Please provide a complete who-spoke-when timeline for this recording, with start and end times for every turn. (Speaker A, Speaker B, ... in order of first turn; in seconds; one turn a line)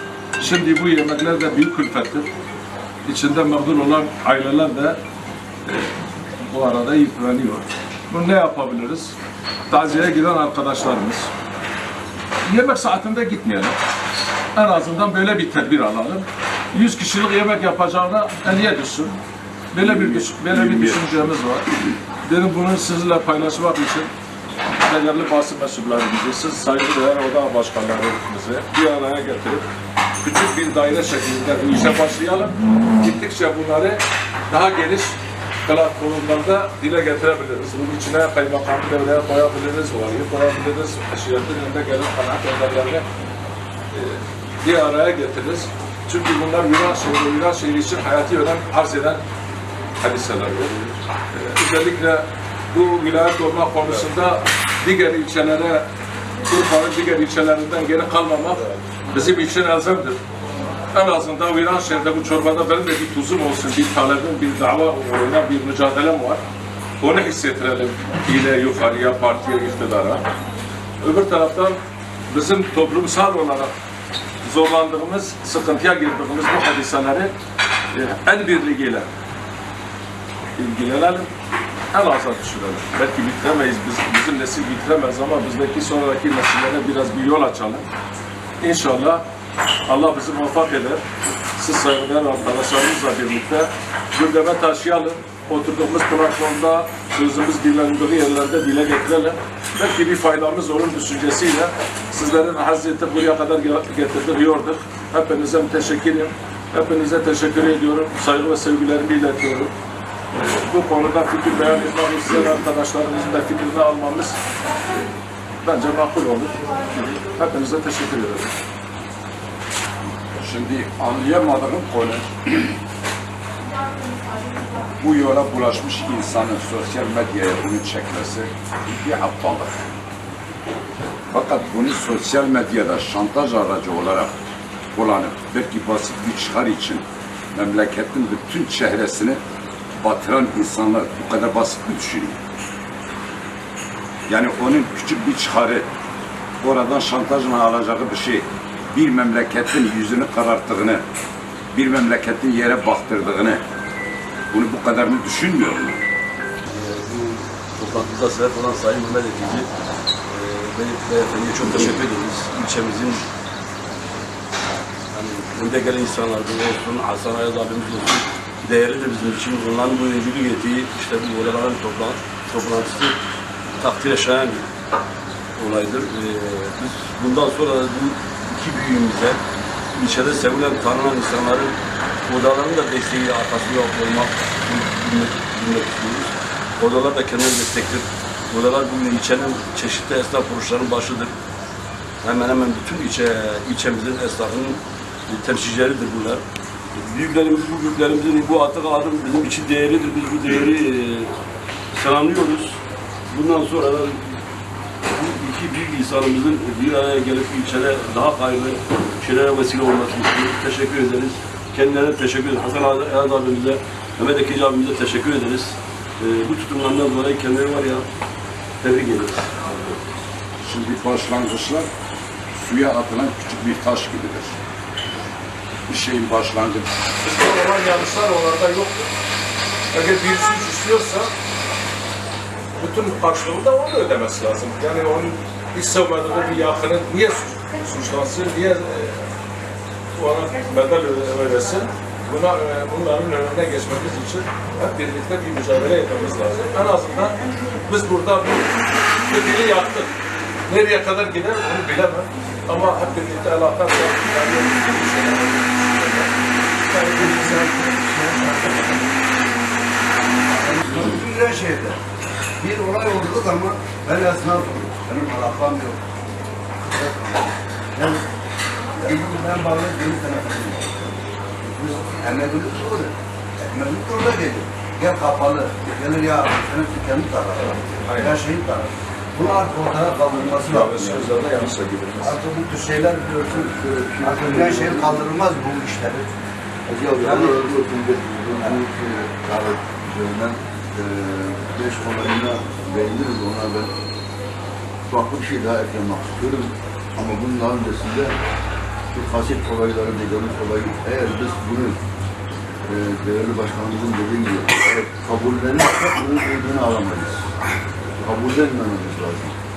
Speaker A: 0.4-2.3
Speaker A: 3.0-5.0
Speaker A: 6.4-9.1
Speaker A: 9.7-11.3
Speaker A: 12.4-13.8
Speaker A: 14.5-19.1
Speaker A: 19.7-21.7
Speaker B: 19.8-21.3
Speaker A: 22.2-24.1
Speaker A: 24.8-29.6
Speaker A: 30.2-43.0
Speaker A: 43.9-49.2
Speaker A: 50.0-50.7
Speaker A: 51.3-55.8
Speaker A: 56.5-60.2
Speaker A: 60.9-66.4
Speaker A: 67.0-70.2
Speaker A: 71.0-71.8
Speaker A: 72.3-73.7
Speaker A: 74.4-77.3
Speaker A: 77.9-79.1
Speaker A: 80.5-81.3
Speaker A: 81.9-87.8
Speaker A: 88.6-89.2
Speaker A: 89.9-91.0
Speaker A: 91.5-109.7
Speaker A: 110.4-114.4
Speaker A: 115.6-116.6
Speaker A: 117.3-118.5
Speaker B: 120.4-122.7
Speaker B: 125.0-129.7
Speaker B: 131.3-134.3
Speaker B: 134.9-139.4
Speaker B: 140.0-142.4
Speaker B: 144.3-145.9
Speaker B: 146.6-151.0
Speaker B: 151.7-153.6
Speaker B: 154.5-156.0
Speaker C: 156.7-159.7
Speaker C: 160.3-163.2
Speaker B: 161.7-162.0
Speaker C: 165.1-173.2
Speaker C: 173.8-174.7
Speaker C: 175.6-179.4
Speaker C: 179.9-181.8
Speaker C: 182.3-191.3
Speaker C: 192.2-196.4
Speaker C: 196.9-201.3
Speaker C: 201.9-202.8
Speaker C: 203.3-204.2
Speaker C: 205.1-218.1
Speaker C: 218.8-220.0
Speaker B: 220.6-221.9
Speaker B: 222.6-224.6
Speaker B: 225.9-226.9
Speaker A: 227.2-229.1
Speaker A: 229.9-231.3
Speaker A: 232.8-239.2
Speaker A: 240.1-248.7
Speaker A: 249.2-250.1
Speaker A: 250.7-256.3
Speaker A: 256.9-257.7
Speaker D: 256.9-259.0
Speaker D: 260.6-262.0
Speaker D: 262.6-266.0
Speaker D: 266.8-268.2
Speaker D: 269.0-281.4
Speaker A: 278.0-278.4
Speaker A: 280.7-282.4
Speaker D: 282.2-283.6
Speaker E: 283.5-285.3
Speaker D: 284.2-286.3
Speaker E: 286.9-293.9
Speaker D: 287.2-287.6
Speaker E: 295.1-298.4
Speaker E: 299.1-302.0
Speaker E: 302.9-307.5
Speaker E: 308.2-309.5